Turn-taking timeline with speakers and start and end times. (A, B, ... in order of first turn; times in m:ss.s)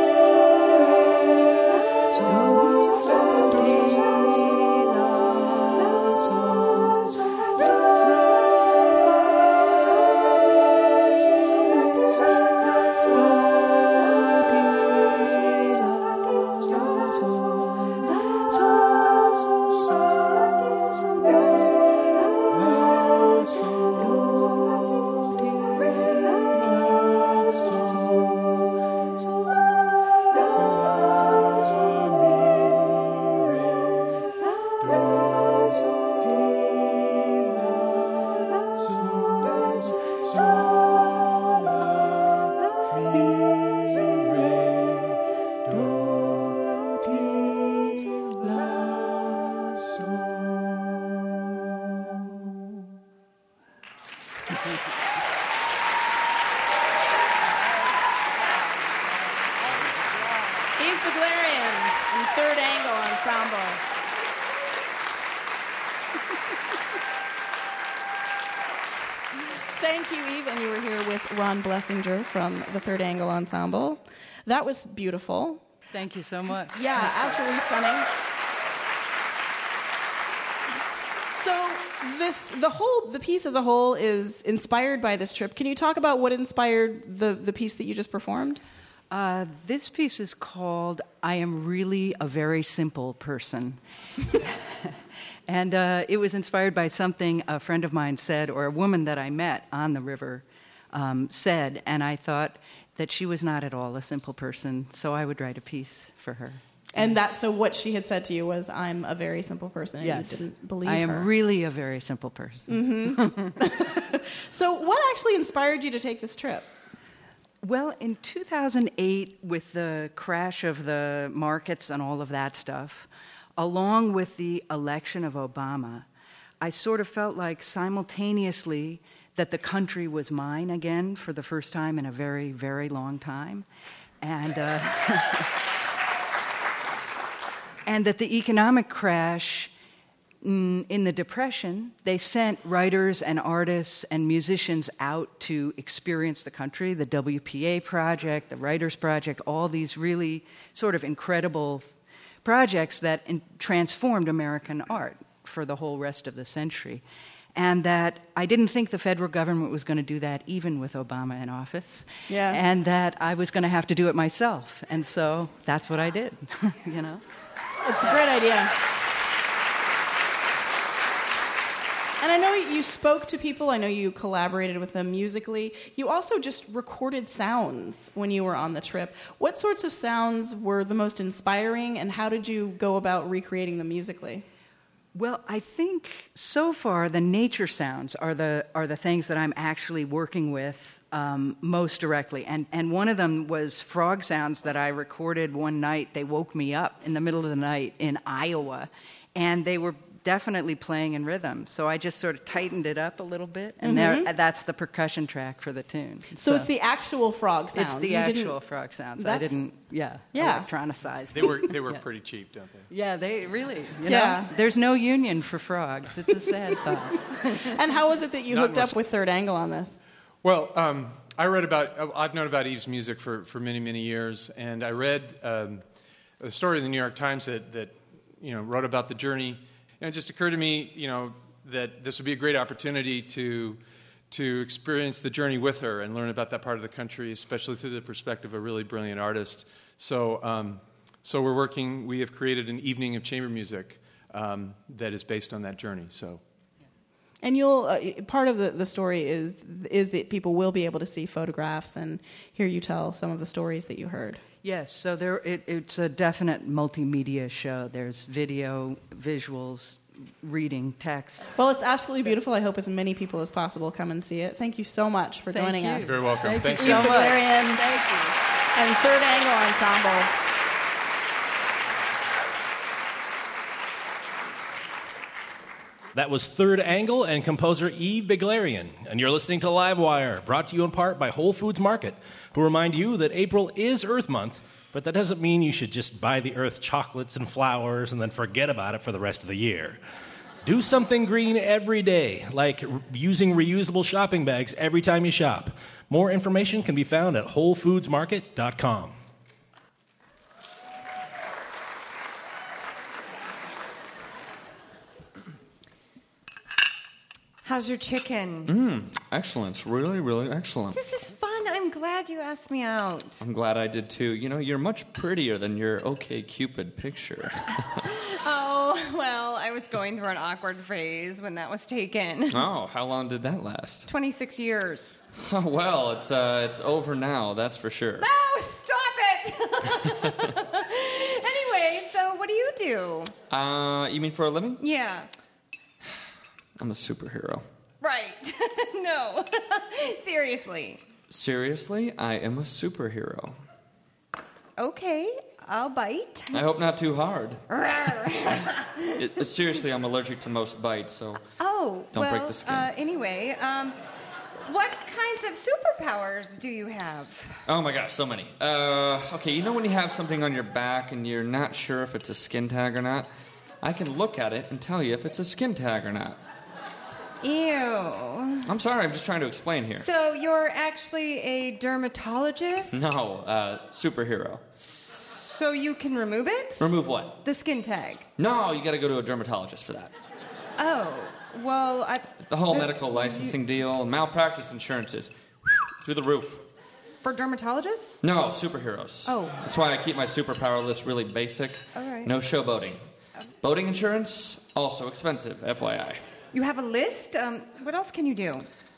1:00.8-1:03.8 A
1:09.6-1:15.6 A
1:15.9-1:17.4 B
1:16.7-1:18.1 A
1:21.3-1:28.6 A
1:29.1-1:33.8 B
1:34.3-1:47.1 B
1:47.0-1:51.3 A
1:50.0-1:53.8 B
1:52.7-1:56.7 A
1:57.6-2:06.0 B
2:06.6-2:13.6 B
2:14.2-2:15.5 B
2:17.9-2:19.7 B
2:20.4-2:31.9 B
2:32.4-2:37.0 B
2:37.6-2:47.2 B
2:42.3-2:42.6 A
2:47.8-2:48.7 A
2:52.2-3:04.4 A
3:05.2-3:26.7 B
3:23.8-3:24.3 A
3:26.4-3:28.6 A
3:27.7-3:32.0 B
3:29.2-3:29.6 A
3:30.3-3:30.7 A
3:31.3-3:32.9 C
3:32.9-3:37.8 B
3:34.1-3:34.5 A
3:37.6-3:40.0 A
3:38.5-3:39.0 C
3:40.4-3:45.8 C
3:46.4-4:06.4 C
4:07.4-4:14.4 A
4:14.6-4:21.5 B
4:21.6-4:27.9 A
4:25.5-4:28.3 B
4:26.0-4:27.2 C
4:28.8-4:30.3 A
4:36.2-4:50.0 D
4:50.6-4:59.2 D
5:07.6-5:08.7 E
5:08.7-5:11.0 F
5:10.9-5:13.4 E
5:13.4-5:18.2 F
5:18.4-5:19.0 A
5:19.0-5:22.7 E
5:22.5-5:24.1 F
5:24.1-5:25.2 E
5:25.4-5:28.3 F
5:28.2-5:33.3 E
5:33.5-5:34.8 F
5:34.8-5:35.3 E
5:36.8-5:37.6 F
5:38.0-5:41.0 E
5:41.3-5:43.6 F
5:44.8-5:46.7 E
5:46.5-5:47.6 F
5:47.7-5:49.2 E
5:49.2-5:51.4 F
5:51.6-5:54.0 E
5:52.1-5:52.9 F
5:54.6-5:57.6 E
5:57.7-6:03.3 F
6:03.8-6:06.4 F
6:07.4-6:08.7 E
6:08.6-6:10.1 F
6:10.0-6:13.0 E
6:12.9-6:14.6 F
6:14.7-6:18.3 E
6:16.8-6:17.4 F
6:18.4-6:20.1 F
6:20.8-6:23.6 E
6:22.5-6:26.6 F
6:27.2-6:28.2 E
6:28.2-6:33.0 F
6:29.3-6:29.6 E
6:32.0-6:32.3 E
6:33.6-6:36.2 F
6:36.5-6:38.7 E